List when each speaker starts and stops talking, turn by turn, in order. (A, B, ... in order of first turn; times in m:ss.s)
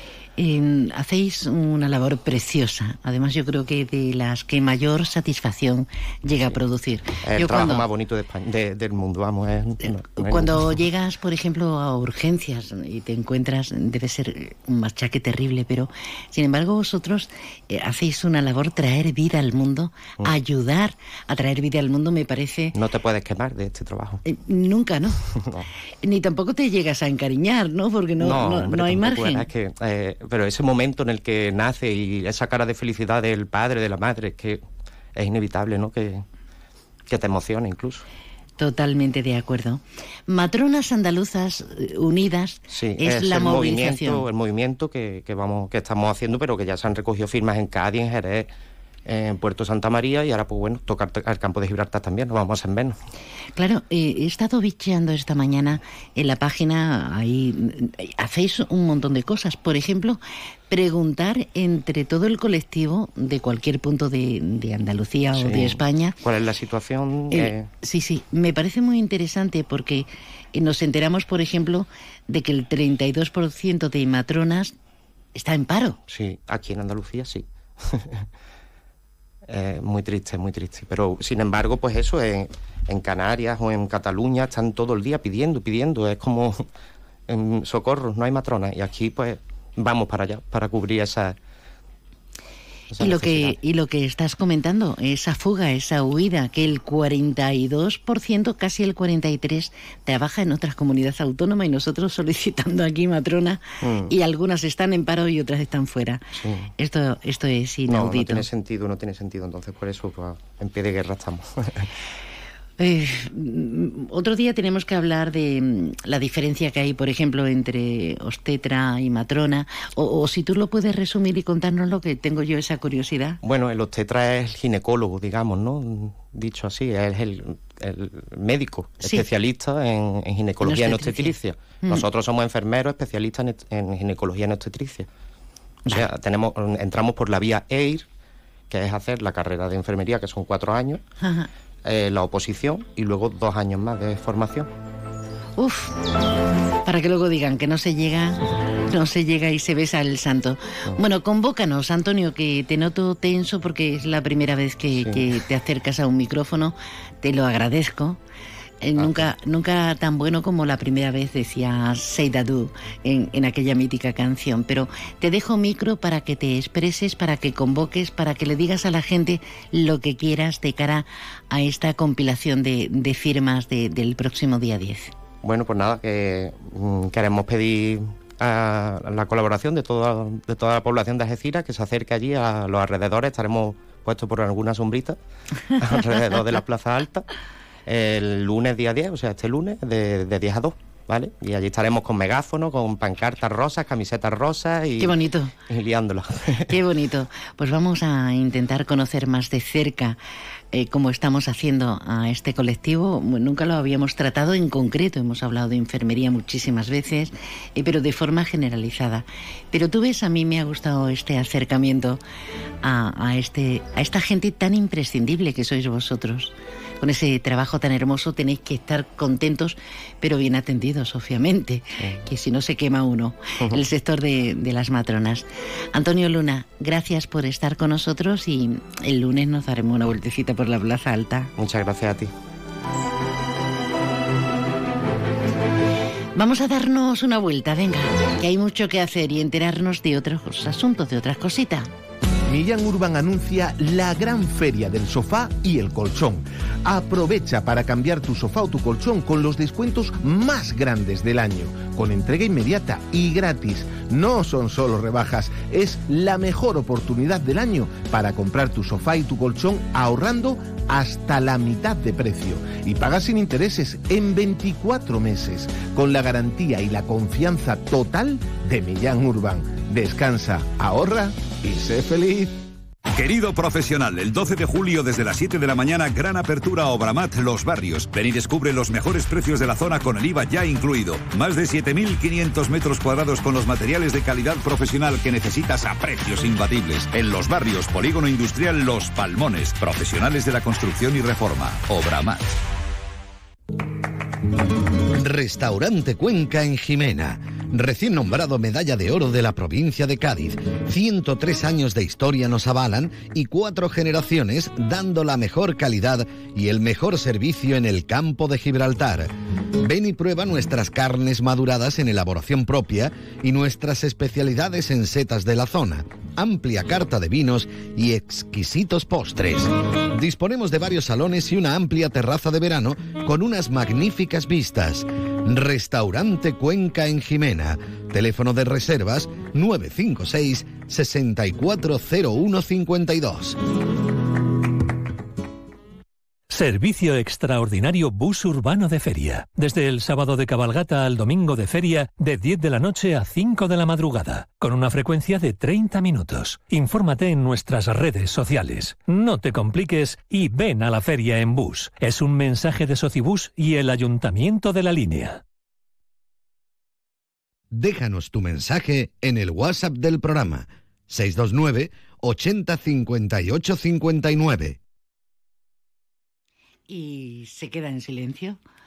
0:00.4-0:07.8 A
0:07.2-0:10.8 B
0:10.2-0:22.8 A
0:22.7-0:24.2 B
0:24.2-0:25.2 A
0:25.4-0:25.7 B
0:26.0-0:29.5 A
0:28.2-0:34.6 B
0:35.2-0:36.2 B
0:37.1-0:38.1 B
0:38.6-0:44.2 A
0:42.7-0:48.5 B
0:49.1-0:53.0 B
0:53.6-1:06.2 A
1:05.3-1:07.7 B
1:07.3-1:14.8 A
1:15.4-1:16.0 A
1:16.1-1:18.3 B
1:19.5-1:26.6 B
1:27.3-1:31.4 B
1:32.9-1:33.6 B
1:33.0-1:48.5 A
1:43.8-1:44.1 B
1:46.4-1:46.7 B
1:47.9-1:51.9 B
1:52.8-2:03.4 A
2:03.4-2:15.1 B
2:10.6-2:12.0 A
2:15.9-2:18.1 B
2:18.7-2:21.0 B
2:21.2-2:21.5 A
2:21.8-2:24.7 B
2:25.6-2:26.0 A
2:26.8-2:38.2 A
2:35.0-2:35.3 B
2:38.8-2:55.1 A
2:39.0-2:39.3 B
2:55.4-3:05.2 B
3:05.8-3:07.3 B
3:07.9-3:15.2 B
3:15.0-3:15.6 A
3:15.7-3:16.8 B
3:16.7-3:20.2 A
3:20.7-3:32.2 A
3:32.8-3:51.5 A
3:51.6-3:52.3 B
3:56.4-4:01.9 A
4:02.5-4:32.5 C
4:33.1-4:52.6 D
4:55.1-5:33.6 E
5:36.5-5:55.4 F
5:57.7-6:04.8 E
6:06.9-6:08.6 A